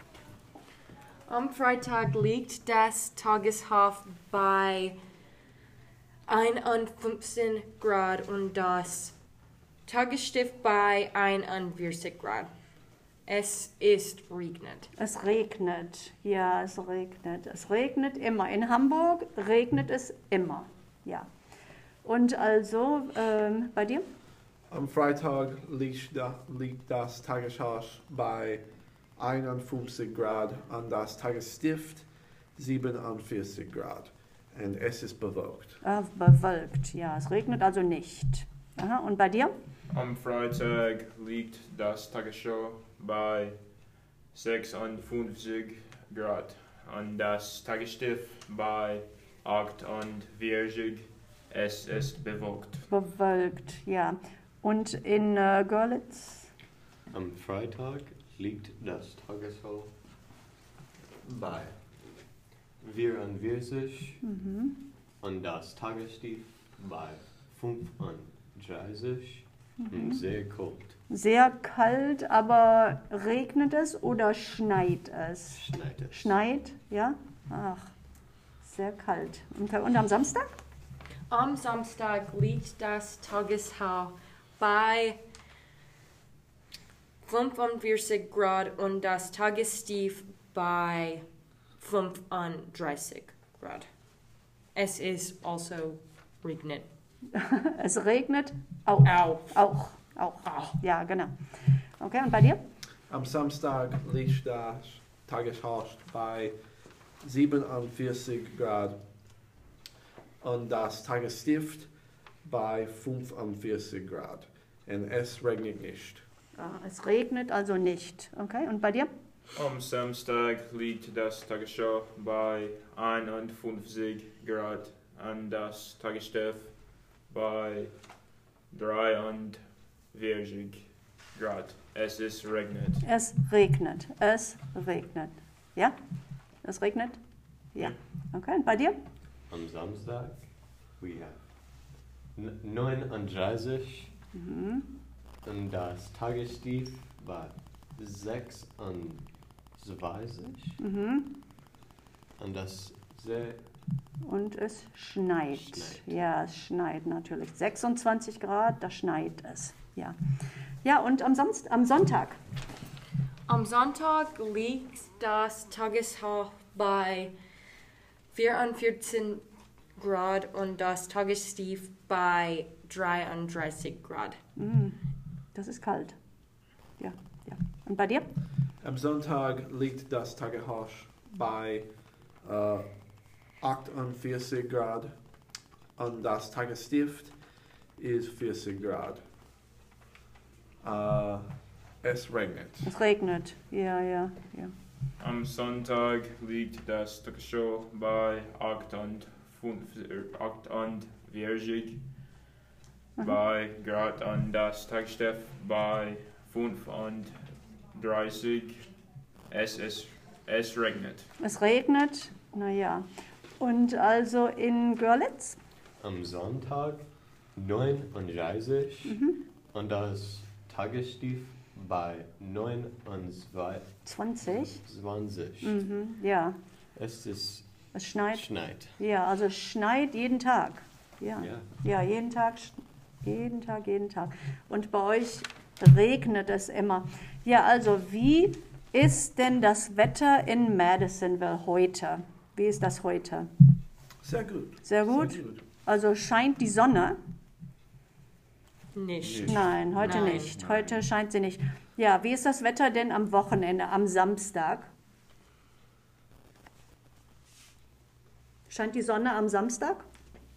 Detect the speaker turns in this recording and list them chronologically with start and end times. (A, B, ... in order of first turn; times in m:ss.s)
0:01.3-0:05.0 A
0:06.3-0:09.1 A
0:09.8-0:12.5 A
0:13.2-0:14.9 A
0:15.0-0:21.3 B
0:22.0-0:24.0 B
0:24.7-0:28.6 C
0:29.2-0:35.8 C
0:35.8-0:39.5 B
0:39.9-0:43.6 D
0:44.3-0:52.8 D
0:52.9-0:56.5 B
0:57.1-0:59.9 E
1:01.2-1:01.7 E
1:02.8-1:04.2 E
1:04.2-1:04.8 B
1:05.2-1:11.0 E
1:11.1-1:15.6 B
1:15.5-1:16.4 E
1:16.1-1:17.9 B
1:18.6-1:20.5 B
1:21.3-1:25.2 A
1:27.2-1:31.2 A
1:31.8-1:33.9 A
1:34.7-1:36.9 A
1:37.3-1:41.3 B
1:39.0-1:39.6 A
1:40.4-1:40.8 A
1:42.0-1:42.6 B
1:43.1-1:46.6 C
1:47.2-1:49.0 C
1:50.4-1:51.9 C
1:52.4-1:56.2 C
1:56.6-1:59.1 B
1:59.5-2:06.7 D
2:07.3-2:07.9 D
2:08.7-2:13.0 D
2:13.0-2:15.9 B
2:16.6-2:17.2 B
2:17.7-2:19.0 B
2:19.5-2:20.4 E
2:21.0-2:21.4 E
2:22.3-2:24.1 E
2:24.3-2:24.8 B
2:25.4-2:30.8 E
2:30.8-2:31.3 B
2:32.4-2:33.6 E
2:34.2-2:40.2 B
2:35.5-2:36.2 E
2:40.8-2:42.4 B
2:43.5-2:47.3 A
2:48.3-2:49.4 A
2:50.0-2:54.4 A
2:54.6-2:55.0 B
2:55.5-2:56.2 B
2:57.0-2:58.3 B
2:58.8-3:01.9 C
3:02.4-3:02.9 C
3:03.6-3:05.1 C
3:06.0-3:07.3 C
3:08.0-3:09.2 C
3:10.8-3:12.9 C
3:12.8-3:14.7 B
3:15.2-3:22.0 D
3:23.2-3:27.3 D
3:27.9-3:28.8 D
3:29.5-3:31.3 D
3:31.4-3:33.0 B
3:33.6-3:35.6 B
3:36.0-3:45.8 E
3:39.1-3:39.4 B
3:44.0-3:44.8 B
3:45.6-3:46.6 B
3:46.9-3:47.7 E
3:47.9-3:48.5 B
3:48.2-3:48.9 E
3:49.0-4:03.5 B
3:51.4-3:51.7 E
4:04.2-4:05.6 C
4:04.8-4:07.2 B
4:08.9-4:10.5 A
4:09.2-4:10.5 E
4:09.4-4:14.9 B
4:18.7-4:20.0 B